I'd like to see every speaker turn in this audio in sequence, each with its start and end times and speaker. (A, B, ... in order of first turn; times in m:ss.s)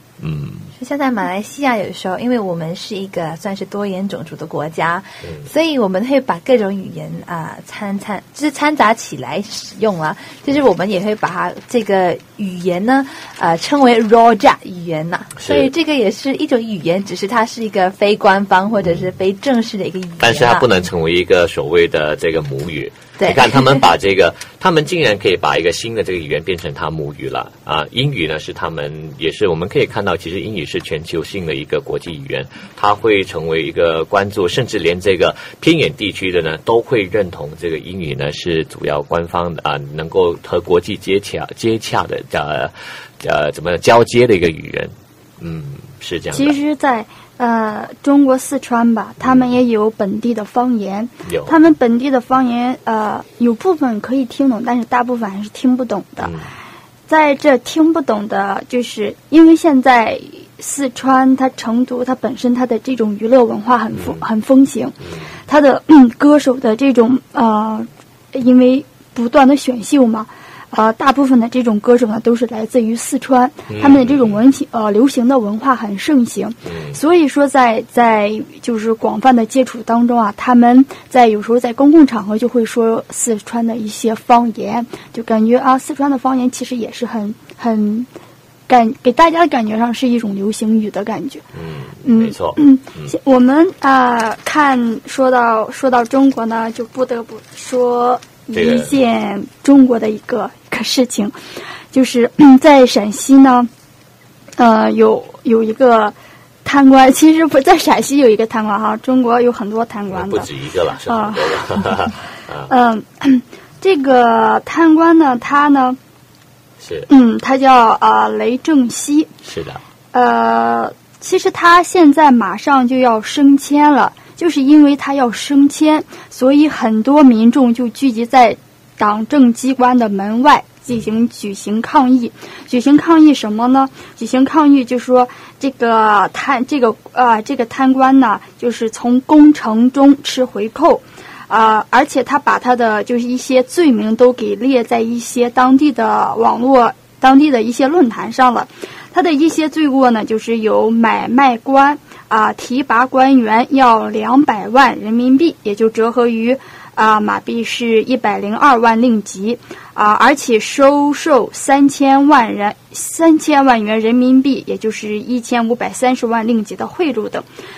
0:00.2-0:00.7 A
0:00.8-0:20.7 B
0:15.4-0:15.7 A
0:18.8-0:19.1 A
0:20.2-0:46.6 A
0:23.2-0:23.8 B
0:46.3-0:56.3 C
0:49.2-0:49.5 A
0:51.2-0:51.5 A
0:56.2-0:56.4 A
0:57.1-1:28.1 C
1:13.7-1:14.3 A
1:16.6-1:17.0 A
1:28.7-1:31.4 C
1:31.5-1:33.1 A
1:32.0-1:41.3 C
1:38.5-1:38.9 A
1:41.9-1:43.7 C
1:44.6-1:50.5 C
1:50.1-1:52.7 A
1:51.1-1:51.8 C
1:52.7-1:56.0 C
1:56.8-1:57.1 A
1:57.1-1:59.3 C
1:59.4-1:59.8 A
2:00.1-2:47.4 C